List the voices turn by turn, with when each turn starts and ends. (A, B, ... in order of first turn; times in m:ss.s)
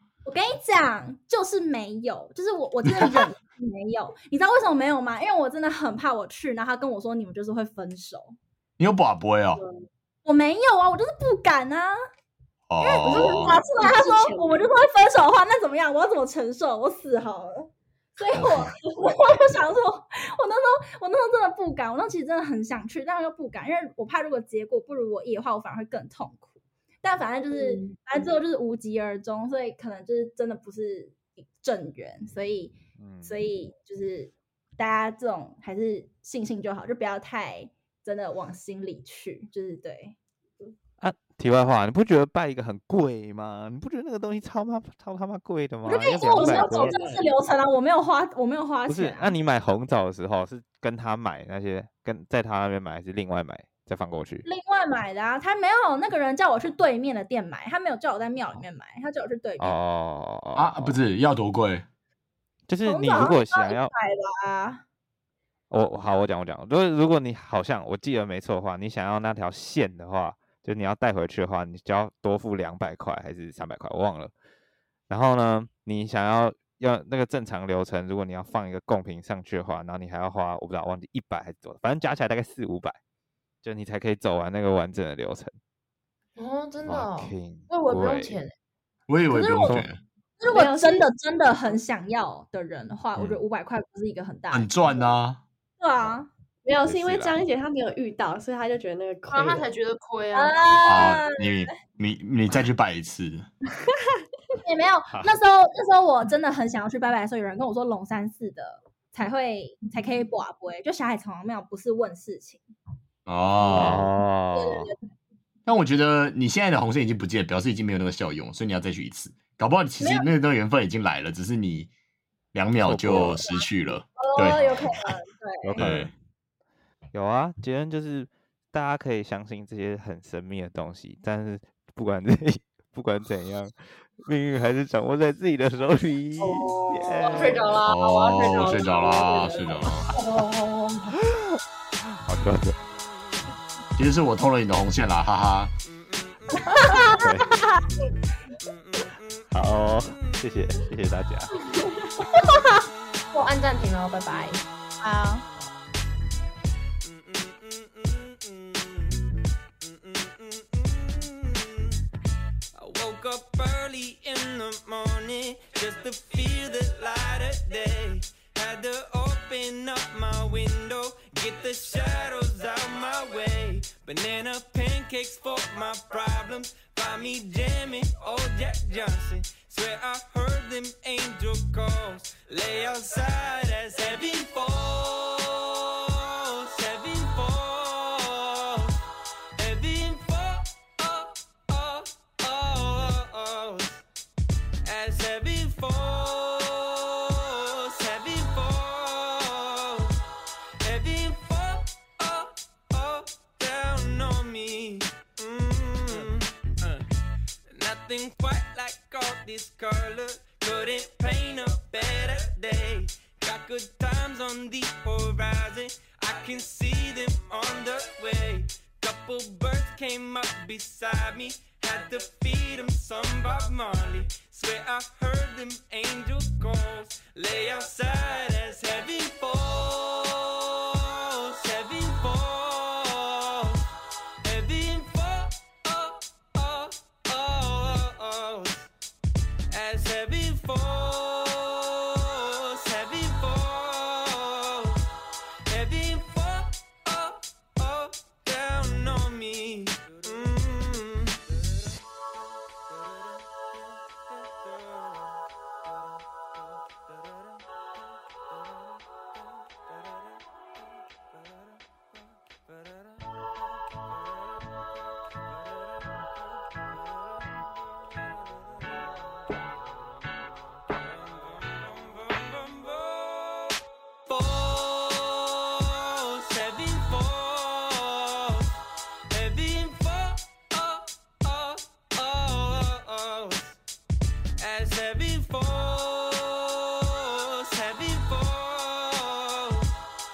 0:00.2-0:08.4 A
0:08.8-0:09.6 B
0:09.6-0:09.8 C
0:10.2-0:12.0 A
0:12.7-0:13.6 B
0:12.8-0:26.5 A
0:13.0-0:14.7 C
0:18.3-0:18.7 B
0:27.0-0:40.2 A
0:27.6-0:28.0 C
0:33.0-0:33.4 D
0:41.0-0:47.0 D
0:45.9-0:49.4 A
0:46.4-0:47.3 C
0:48.9-0:54.4 D
0:54.4-0:59.8 A
0:59.6-1:01.0 D
1:00.6-1:01.8 B
1:02.7-1:03.9 D
1:02.8-1:04.8 A
1:05.7-1:14.3 D
1:15.1-1:23.0 D
1:23.6-1:25.6 D
1:26.4-1:28.5 E
1:26.9-1:28.4 D
1:29.1-1:30.0 B
1:29.3-1:29.8 A
1:30.4-1:34.7 A
1:30.5-1:31.1 C
1:33.2-1:33.4 D
1:34.5-1:35.4 B
1:35.8-1:36.3 A
1:36.6-1:39.7 C
1:36.8-1:37.3 D
1:39.3-1:41.0 E
1:40.3-1:41.7 A
1:40.8-1:43.5 B
1:44.6-1:52.6 A
1:53.3-1:54.1 B
1:53.7-1:54.9 D
1:54.5-1:55.0 A
1:55.7-2:01.9 B
2:00.0-2:00.3 A
2:02.5-2:04.8 B
2:02.8-2:03.5 D
2:04.2-2:05.8 A
2:05.6-2:06.1 D
2:05.8-2:06.1 B
2:07.1-2:17.7 D
2:16.4-2:17.2 C
2:17.2-2:21.2 E
2:17.8-2:20.1 B
2:21.3-2:22.8 D
2:24.0-2:25.7 B
2:25.8-2:27.2 F
2:26.7-2:27.8 A
2:27.2-2:27.5 D
2:28.6-2:30.8 F
2:29.5-2:31.5 D
2:32.2-2:32.8 A
2:32.7-2:33.3 F
2:33.3-2:34.6 E
2:34.6-2:35.8 F
2:35.0-2:35.4 A
2:37.0-2:42.0 F
2:42.8-3:09.0 F
3:09.6-3:14.0 F
3:14.8-3:20.2 F
3:20.8-3:27.0 F
3:27.7-3:53.9 F
3:54.4-3:58.9 F
3:59.7-4:05.0 F
4:05.7-4:12.0 F
4:14.3-4:15.3 F
4:22.7-4:23.3 F
4:31.0-4:38.7 F
4:39.3-4:43.8 F
4:44.6-4:50.0 F